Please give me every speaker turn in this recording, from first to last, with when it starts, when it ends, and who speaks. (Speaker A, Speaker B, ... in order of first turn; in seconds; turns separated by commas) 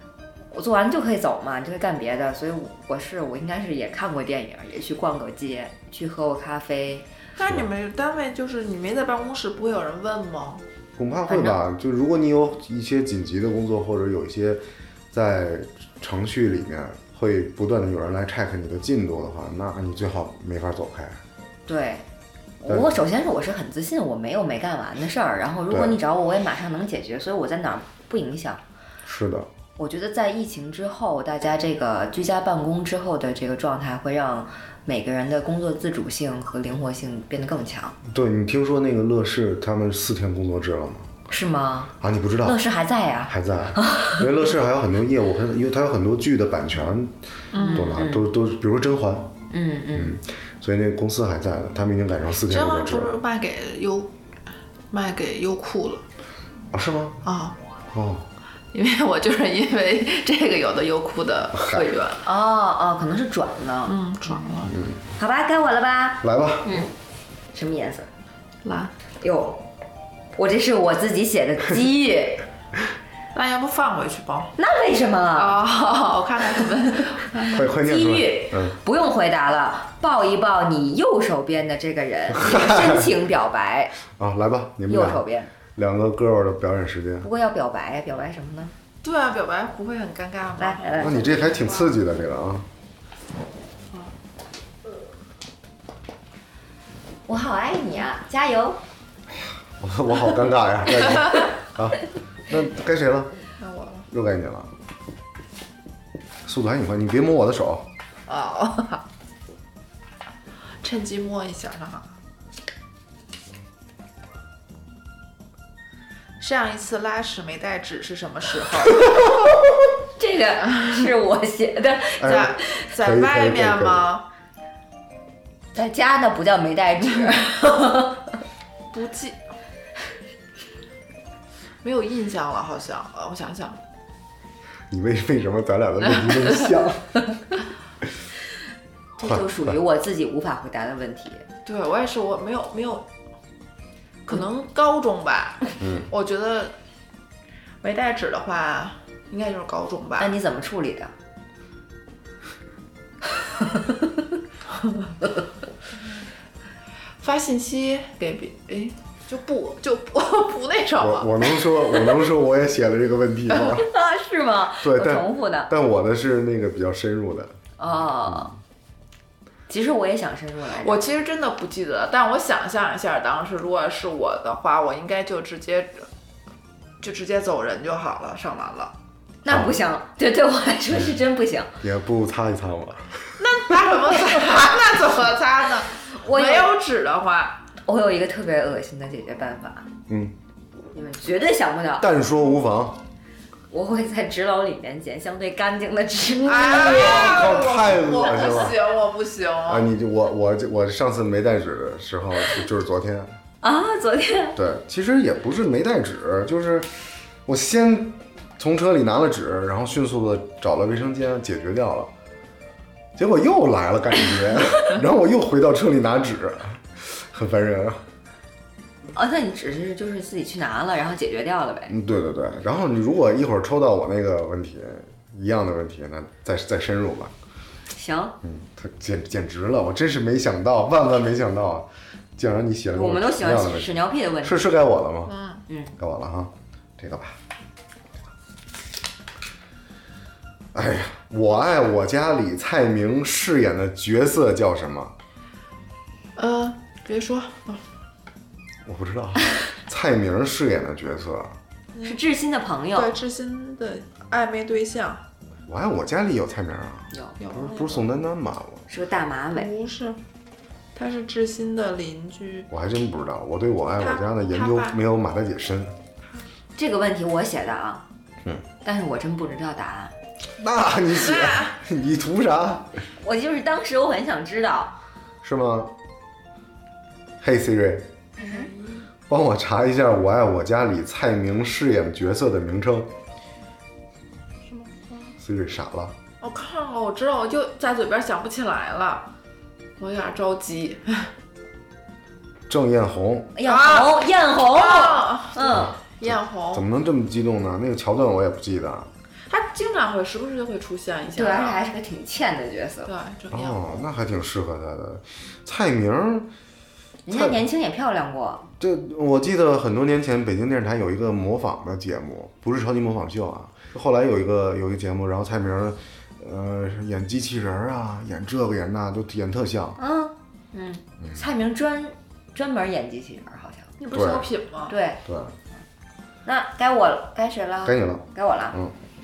Speaker A: 0.5-7.0, Speaker B: 7.4-10.6, Speaker C: 11.0-21.2, Speaker A: 11.2-11.6, Speaker A: 21.7-22.1, Speaker A: 22.6-28.6, Speaker C: 22.6-23.0, Speaker C: 25.7-26.0, Speaker C: 29.1-29.5, Speaker A: 29.8-38.0, Speaker C: 38.0-41.1, Speaker A: 41.3-44.2, Speaker C: 42.0-42.6, Speaker C: 43.3-47.2, Speaker B: 47.5-48.0, Speaker A: 47.6-48.3, Speaker C: 47.7-49.4, Speaker A: 49.5-50.2, Speaker C: 49.9-53.1, Speaker B: 52.5-54.1, Speaker B: 54.9-56.0, Speaker C: 56.7-57.2, Speaker B: 57.2-57.5, Speaker C: 57.9-58.3, Speaker B: 58.7-62.3, Speaker C: 61.5-61.9, Speaker A: 62.2-63.9, Speaker B: 63.9-64.8, Speaker C: 64.7-65.0, Speaker A: 65.2-66.9, Speaker C: 66.2-66.8, Speaker A: 67.5-68.1, Speaker B: 68.6-68.9, Speaker A: 69.2-69.7, Speaker A: 70.3-72.4, Speaker B: 73.3-74.5, Speaker A: 74.6-75.6, Speaker B: 75.3-77.7, Speaker C: 77.5-78.8, Speaker A: 77.8-84.0, Speaker C: 82.3-83.1, Speaker C: 84.1-85.2, Speaker A: 84.9-85.5, Speaker C: 85.8-87.3, Speaker A: 87.2-88.7, Speaker B: 89.0-92.0, Speaker A: 90.6-91.2, Speaker C: 91.0-92.7, Speaker A: 97.3-98.8, Speaker C: 99.3-103.3, Speaker B: 103.6-104.1, Speaker C: 104.1-104.7, Speaker C: 106.4-107.9, Speaker B: 108.3-109.0, Speaker B: 110.8-112.1, Speaker B: 116.4-119.1, Speaker A: 120.2-122.8, Speaker C: 122.2-124.1, Speaker B: 122.2-124.3, Speaker A: 125.7-128.4, Speaker B: 128.9-129.4, Speaker B: 131.8-133.8, Speaker C: 134.9-137.3, Speaker B: 136.2-136.6, Speaker A: 139.2-141.4, Speaker C: 139.2-139.7, Speaker B: 141.7-143.1, Speaker B: 144.2-146.8, Speaker C: 145.8-146.1, Speaker B: 147.8-150.3, Speaker A: 150.2-151.1, Speaker A: 153.6-154.1, Speaker B: 157.2-161.4, Speaker C: 161.0-163.9, Speaker A: 163.8-165.7, Speaker C: 164.8-167.6, Speaker A: 167.8-168.5, Speaker A: 169.7-171.1, Speaker B: 170.8-176.1, Speaker B: 177.0-178.9, Speaker A: 179.4-181.7, Speaker C: 179.5-179.8, Speaker C: 181.8-183.4, Speaker B: 183.4-187.7, Speaker A: 186.1-186.7, Speaker A: 187.8-189.9, Speaker C: 190.1-190.3, Speaker A: 190.9-192.1, Speaker C: 192.0-193.0, Speaker A: 193.7-197.3, Speaker B: 196.4-199.9, Speaker C: 196.7-198.8, Speaker C: 199.7-203.3, Speaker A: 203.6-204.6, Speaker C: 204.6-206.9, Speaker C: 207.4-212.1, Speaker C: 213.2-218.0, Speaker A: 219.1-221.9, Speaker C: 221.9-227.3, Speaker A: 227.9-228.4, Speaker C: 228.4-235.3, Speaker A: 232.9-234.7, Speaker B: 235.2-235.6, Speaker C: 236.0-237.4, Speaker C: 240.7-245.2, Speaker B: 246.3-247.8, Speaker C: 248.8-251.6, Speaker B: 251.9-252.2, Speaker A: 252.0-253.1, Speaker B: 252.9-255.2, Speaker C: 255.7-258.8, Speaker A: 257.1-257.4, Speaker B: 257.4-258.1, Speaker A: 258.9-259.7, Speaker B: 259.5-260.2, Speaker B: 260.9-262.7, Speaker C: 262.7-265.9, Speaker B: 263.9-265.0, Speaker A: 266.8-268.0, Speaker A: 268.8-270.1, Speaker C: 270.6-272.9, Speaker B: 271.1-271.7, Speaker A: 273.2-274.9, Speaker C: 275.4-275.9, Speaker C: 277.4-278.1, Speaker B: 278.4-279.0, Speaker A: 278.4-278.7, Speaker C: 279.3-283.1, Speaker B: 284.6-285.4, Speaker C: 285.4-286.1, Speaker B: 286.4-289.3, Speaker B: 290.0-291.3, Speaker C: 292.7-293.5, Speaker A: 293.6-295.9, Speaker B: 293.6-296.8, Speaker C: 295.7-299.1, Speaker B: 299.5-301.8, Speaker A: 301.3-303.1, Speaker B: 303.1-304.0, Speaker C: 303.5-306.5, Speaker A: 307.2-308.7, Speaker C: 307.3-307.6, Speaker C: 308.8-320.0, Speaker A: 320.0-323.9, Speaker B: 324.0-324.9, Speaker C: 324.1-324.5, Speaker A: 324.9-325.2, Speaker C: 325.2-325.5, Speaker A: 326.4-328.8, Speaker C: 327.8-328.9